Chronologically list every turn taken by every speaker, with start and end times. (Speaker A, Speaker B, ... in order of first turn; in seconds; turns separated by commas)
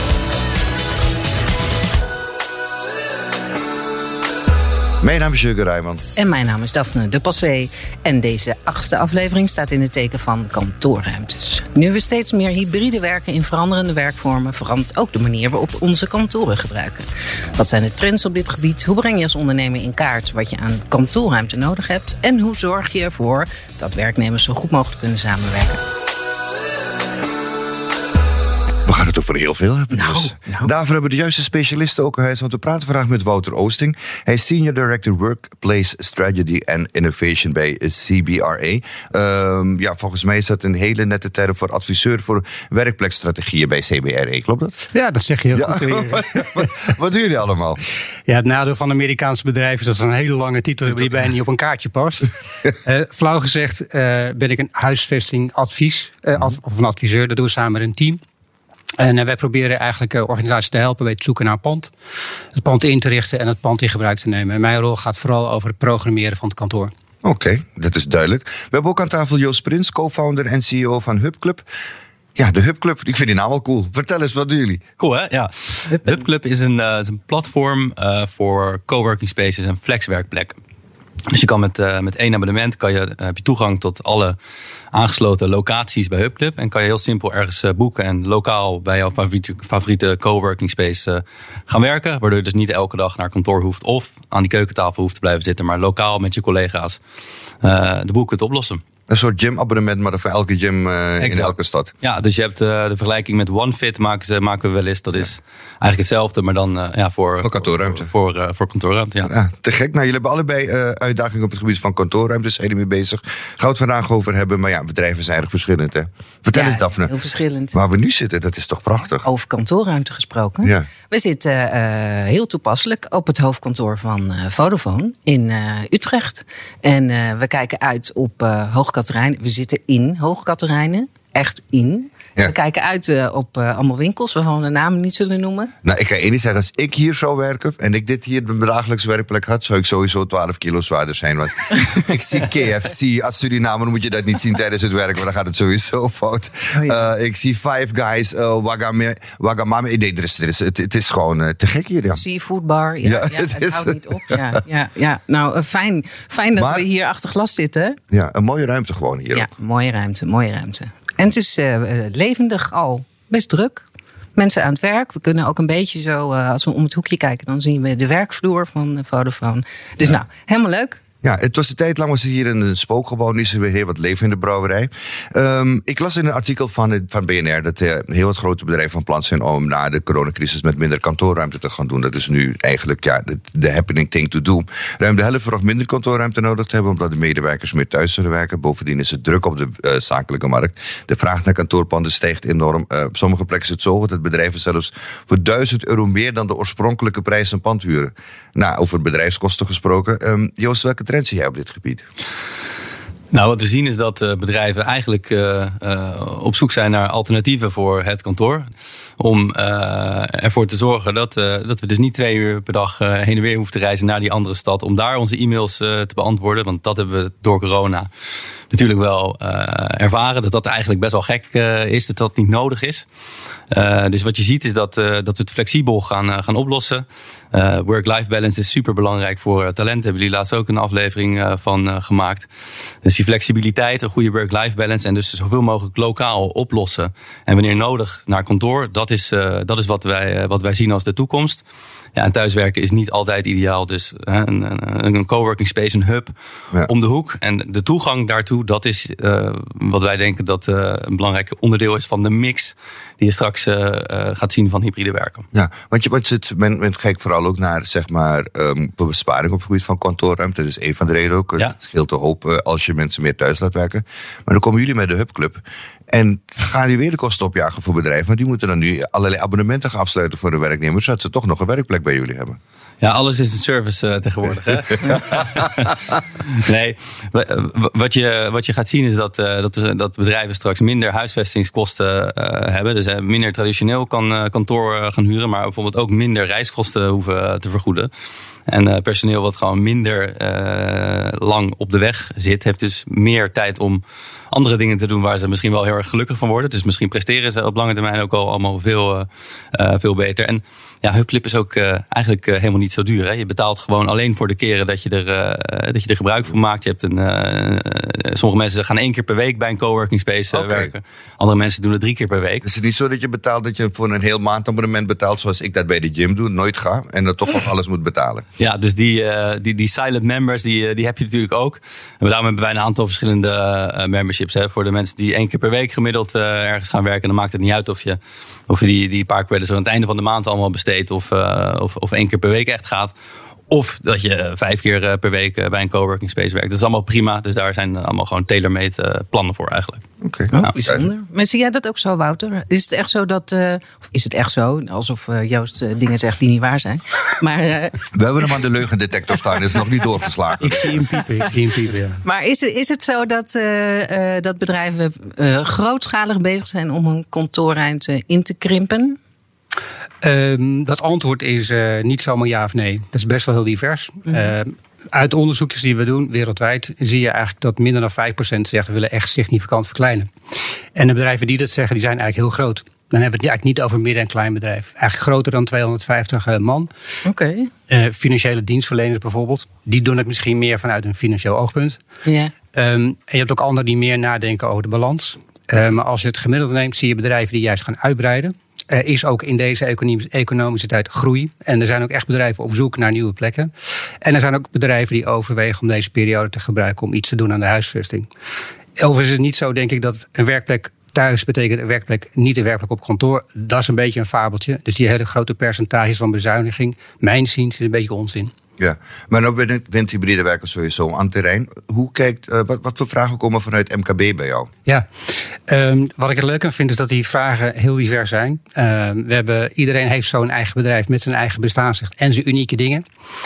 Speaker A: 5.0-6.0, Speaker B: 6.2-25.8, Speaker A: 28.9-44.8, Speaker B: 29.9-30.7, Speaker C: 44.9-46.7, Speaker A: 45.5-47.8, Speaker C: 48.3-52.3, Speaker C: 52.8-58.2, Speaker C: 59.0-61.9, Speaker C: 62.5-66.9, Speaker A: 67.2-71.7, Speaker A: 72.4-74.8, Speaker D: 75.0-80.6, Speaker B: 75.9-76.2, Speaker D: 81.3-84.4, Speaker D: 84.9-97.0, Speaker D: 97.6-98.8, Speaker A: 99.1-101.9, Speaker D: 101.2-109.3, Speaker A: 107.4-108.1, Speaker A: 109.2-117.1, Speaker B: 116.5-117.8, Speaker A: 117.7-119.3, Speaker B: 119.2-135.7, Speaker A: 120.6-120.9, Speaker A: 135.8-152.2, Speaker B: 146.7-147.1, Speaker B: 152.1-158.0, Speaker A: 153.0-154.6, Speaker A: 156.6-156.9, Speaker A: 158.1-159.5, Speaker B: 159.3-171.0, Speaker A: 171.2-202.1, Speaker D: 203.3-208.7, Speaker D: 209.2-218.1, Speaker D: 218.7-223.1, Speaker D: 223.7-232.5, Speaker D: 233.0-241.6, Speaker D: 242.2-246.3, Speaker D: 246.8-255.5, Speaker A: 255.5-272.6, Speaker D: 273.0-288.1, Speaker A: 275.1-275.6, Speaker D: 288.7-312.6, Speaker A: 310.5-310.9, Speaker A: 312.6-318.4, Speaker D: 318.6-333.1, Speaker D: 333.7-340.0, Speaker A: 340.2-341.1, Speaker B: 340.5-348.1, Speaker A: 348.1-350.9, Speaker C: 350.6-352.2, Speaker B: 352.2-359.2, Speaker C: 360.2-370.3, Speaker C: 370.9-376.9, Speaker B: 377.2-377.7, Speaker C: 377.9-382.0, Speaker B: 382.3-382.5, Speaker C: 382.7-393.7, Speaker C: 394.2-398.3, Speaker C: 399.0-408.5, Speaker A: 408.8-414.7, Speaker C: 415.7-423.1